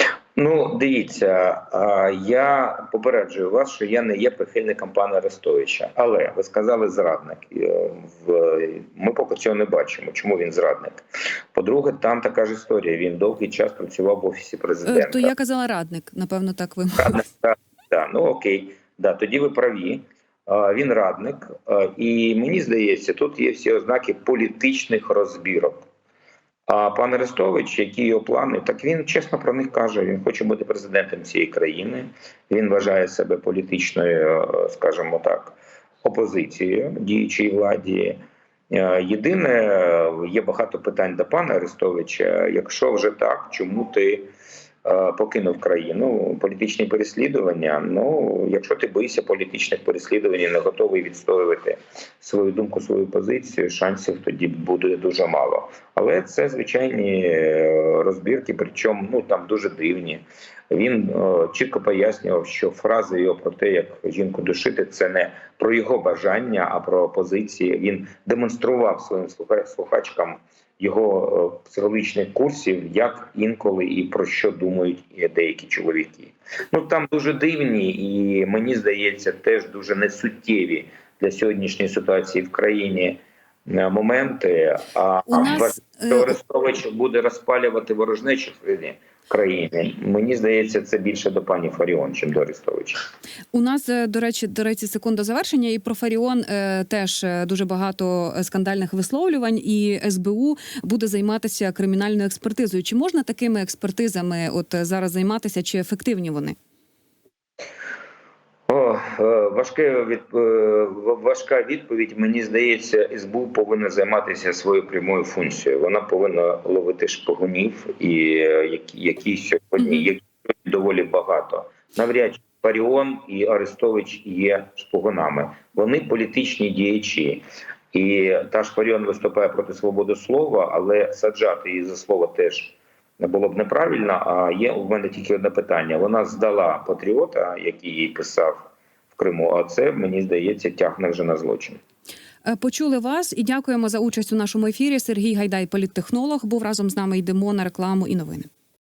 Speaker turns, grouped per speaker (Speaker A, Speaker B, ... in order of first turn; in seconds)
Speaker A: 0.4-15.3, 17.0-25.9, 26.7-38.2, 38.7-44.3, 44.8-93.1, 108.7-141.8
Speaker B: 14.8-17.2, 85.3-86.3, 93.5-106.6, 142.4-148.5